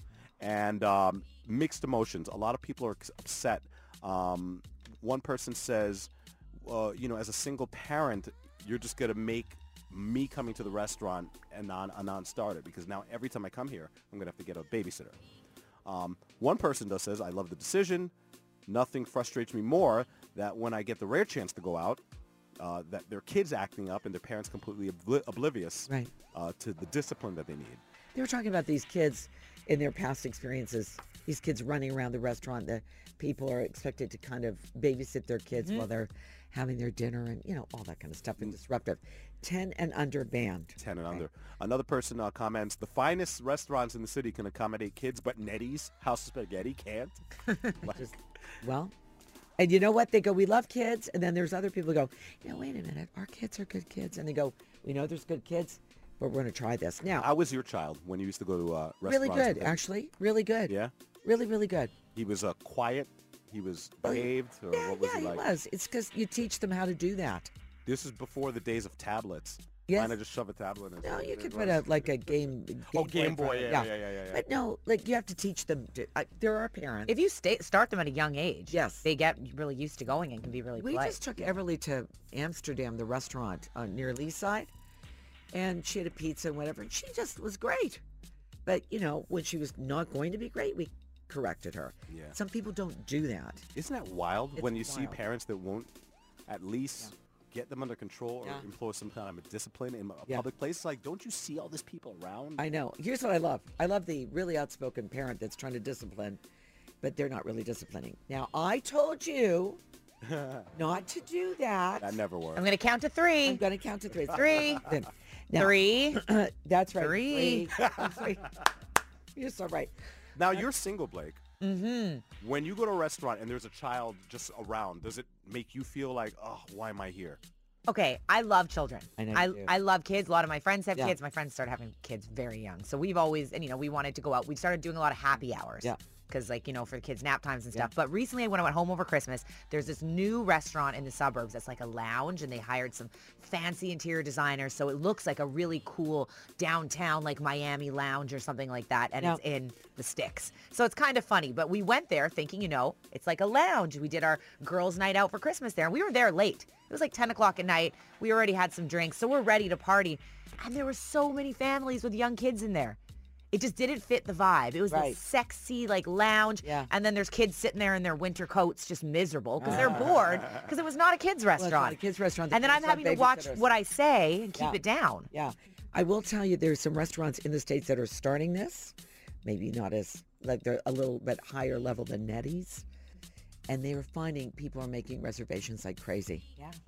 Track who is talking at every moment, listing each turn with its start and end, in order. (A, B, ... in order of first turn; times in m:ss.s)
0:00.4-0:15.2 A
0:15.8-0:18.1 A
0:18.6-0:22.0 A
0:22.6-0:27.8 A
0:28.1-0:41.2 B
0:35.5-0:35.9 C
0:40.8-0:47.2 A
0:47.8-0:48.1 A
0:47.8-0:48.9 B
0:49.6-0:57.3 B
0:57.2-0:59.8 A
0:59.0-1:01.9 B
1:02.1-1:05.5 A
1:04.0-1:07.5 B
1:07.8-1:14.4 A
1:09.9-1:10.2 B
1:11.0-1:17.1 B
1:17.1-1:21.2 C
1:18.7-1:19.0 B
1:20.7-1:24.7 B
1:25.5-1:28.0 B
1:28.6-1:33.6 B
1:32.1-1:32.4 A
1:33.7-1:35.9 A
1:34.6-1:35.2 B
1:36.5-1:42.7 A
1:42.6-1:46.4 B
1:47.0-1:49.8 B
1:50.2-1:50.7 A
1:50.7-1:52.2 B
1:52.0-1:52.7 A
1:52.6-1:53.6 C
1:53.4-1:58.5 B
1:54.3-1:54.9 C
1:55.5-1:56.2 C
1:57.0-1:57.7 C
1:57.8-1:58.3 A
1:59.3-1:59.9 B
2:00.4-2:01.4 A
2:01.6-2:02.2 C
2:02.4-2:07.4 A
2:07.9-2:43.0 C
2:09.2-2:09.7 B
2:43.5-2:52.0 C
2:44.9-2:45.2 B
2:46.6-2:46.9 B
2:49.6-2:50.2 B
2:49.7-2:50.7 A
2:51.6-2:53.6 B
2:52.5-2:55.3 C
2:55.3-3:02.8 B
3:03.7-3:06.8 B